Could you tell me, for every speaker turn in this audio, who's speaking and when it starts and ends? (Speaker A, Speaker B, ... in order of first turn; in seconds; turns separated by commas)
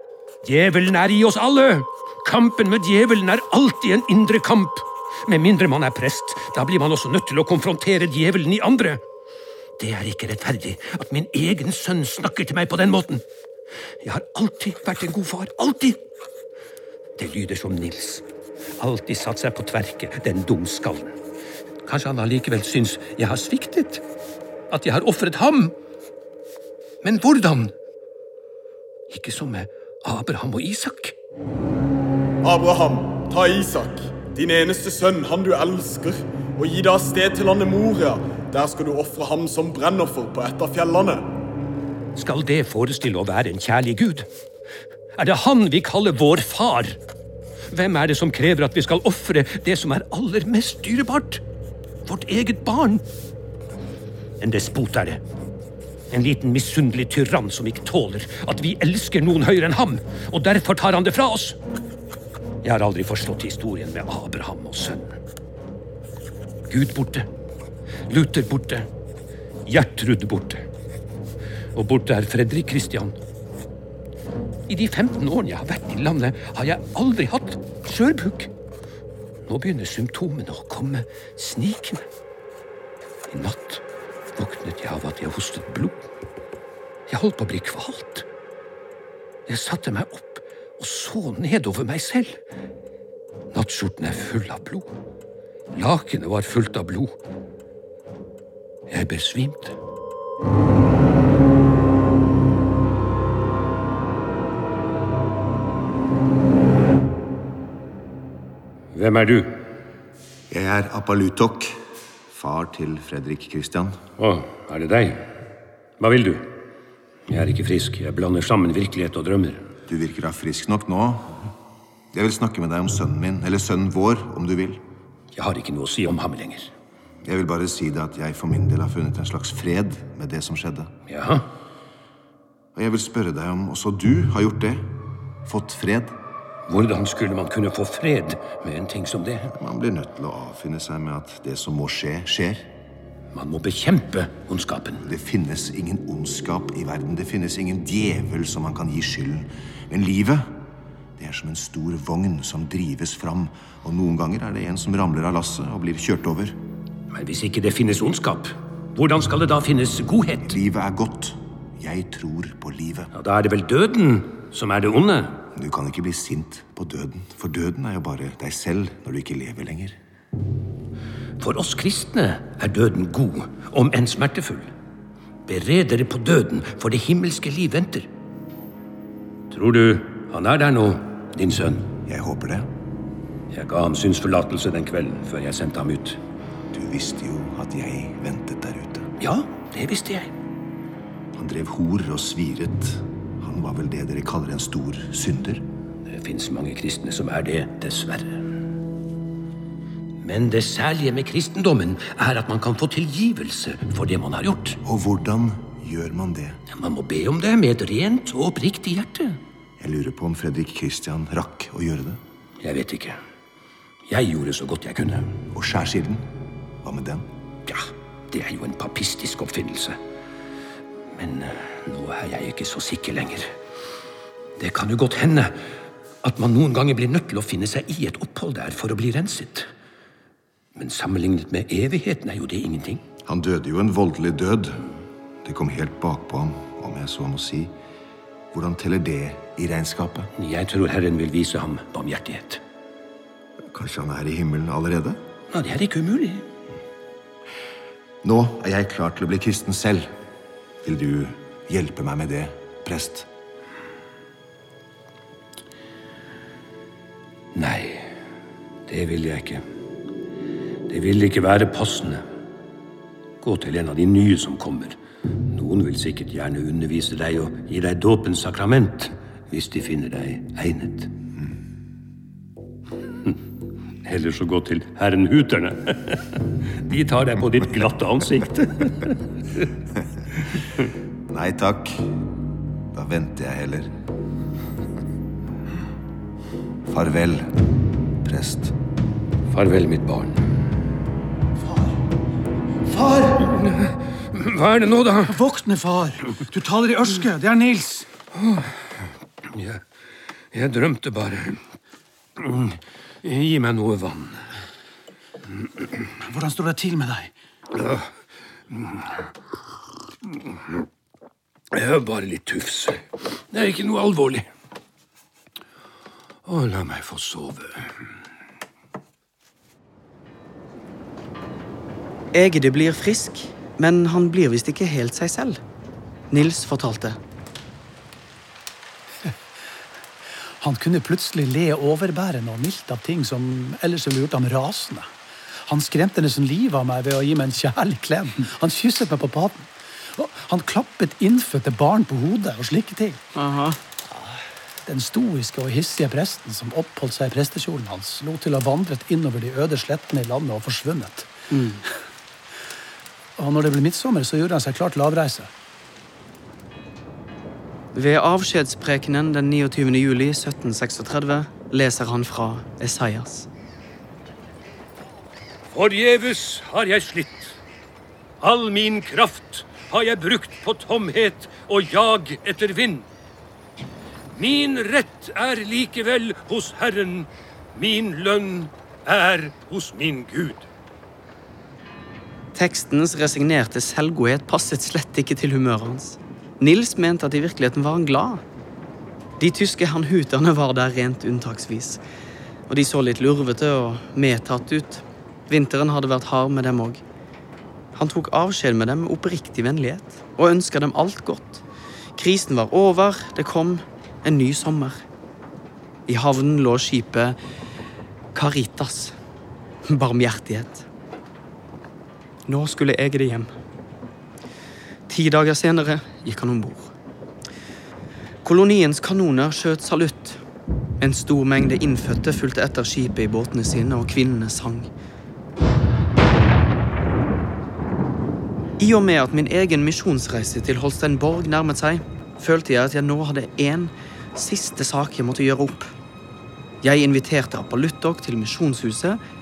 Speaker A: 0.4-9.0, Speaker A: 9.8-13.2, Speaker A: 14.0-16.0, Speaker A: 17.2-18.2, Speaker A: 18.8-21.1, Speaker A: 21.9-24.0, Speaker A: 24.7-25.8, Speaker A: 27.0-27.7, Speaker A: 29.1-31.1, Speaker B: 32.4-41.3, Speaker A: 42.2-44.3, Speaker A: 45.2-47.0, Speaker A: 47.7-51.4, Speaker A: 52.0-53.0, Speaker A: 54.4-55.2, Speaker A: 56.1-61.6, Speaker A: 62.6-65.1, Speaker A: 66.7-67.3, Speaker A: 68.1-68.9, Speaker A: 69.7-70.7, Speaker A: 71.8-73.2, Speaker A: 74.7-78.5, Speaker A: 79.5-82.1, Speaker A: 83.3-83.8, Speaker A: 84.3-86.0, Speaker A: 87.1-88.3, Speaker A: 89.5-92.4, Speaker A: 93.5-94.9, Speaker A: 95.7-97.1, Speaker A: 98.9-99.8, Speaker A: 108.9-109.6, Speaker C: 110.5-114.0, Speaker A: 114.2-115.3, Speaker A: 116.0-116.5, Speaker A: 117.3-119.7, Speaker C: 119.9-121.5, Speaker C: 122.1-124.8, Speaker A: 125.3-126.7, Speaker C: 127.2-130.9, Speaker A: 131.1-131.5, Speaker C: 132.8-136.2, Speaker A: 136.7-139.5, Speaker C: 139.5-142.7, Speaker A: 143.3-145.1, Speaker C: 145.0-150.6, Speaker C: 151.2-156.6, Speaker A: 157.1-160.6, Speaker C: 160.4-163.1, Speaker A: 163.1-165.4, Speaker C: 165.5-170.0, Speaker A: 171.4-174.7, Speaker A: 175.5-178.1, Speaker A: 179.5-181.9, Speaker C: 182.1-182.7, Speaker A: 183.5-186.2, Speaker C: 186.7-189.1, Speaker A: 189.2-190.3, Speaker C: 191.3-195.6, Speaker A: 196.1-198.4, Speaker A: 200.2-204.8, Speaker C: 204.8-206.6, Speaker A: 206.7-209.4, Speaker C: 209.8-212.2, Speaker A: 212.6-213.2, Speaker A: 214.1-215.3, Speaker C: 215.5-216.3, Speaker C: 216.8-217.3, Speaker A: 217.7-220.0, Speaker A: 221.1-223.5, Speaker A: 224.6-225.5, Speaker A: 226.2-229.7, Speaker A: 230.8-233.0, Speaker C: 233.2-234.8, Speaker C: 235.4-237.7, Speaker C: 238.5-240.3, Speaker A: 240.4-242.6, Speaker C: 243.7-245.2, Speaker A: 245.5-246.5, Speaker C: 248.2-250.1, Speaker C: 250.8-253.3, Speaker A: 257.5-258.1, Speaker A: 258.9-259.6, Speaker A: 260.9-262.2, Speaker A: 263.4-265.0, Speaker A: 265.5-271.1, Speaker A: 274.0-279.7, Speaker C: 281.3-282.1, Speaker C: 282.9-283.9, Speaker C: 286.9-287.5, Speaker C: 288.2-288.8, Speaker A: 289.5-290.4, Speaker D: 291.6-291.9, Speaker D: 292.9-293.4, Speaker A: 293.5-295.4, Speaker D: 295.3-298.1, Speaker A: 298.4-299.8, Speaker A: 300.5-301.6, Speaker A: 302.4-304.5, Speaker D: 306.2-307.3, Speaker A: 307.7-308.1, Speaker A: 308.7-309.2, Speaker A: 310.3-310.6, Speaker A: 311.7-314.5, Speaker A: 316.5-317.9, Speaker E: 322.3-325.6, Speaker E: 326.3-327.2, Speaker D: 330.6-335.1, Speaker D: 335.6-343.2, Speaker E: 343.4-343.8, Speaker D: 344.9-351.3, Speaker E: 351.5-351.9, Speaker D: 353.4-355.5, Speaker E: 357.9-363.5, Speaker A: 365.7-367.6, Speaker A: 368.4-373.1, Speaker A: 374.4-380.7, Speaker E: 382.6-388.4, Speaker E: 389.4-392.0, Speaker E: 392.7-397.0, Speaker E: 397.9-401.6, Speaker E: 402.2-405.0, Speaker E: 406.1-407.4, Speaker E: 408.3-409.2, Speaker E: 409.9-410.9, Speaker E: 412.5-413.5, Speaker E: 415.1-416.9, Speaker E: 418.4-420.4, Speaker E: 421.0-424.9, Speaker E: 428.8-435.9, Speaker E: 436.8-439.2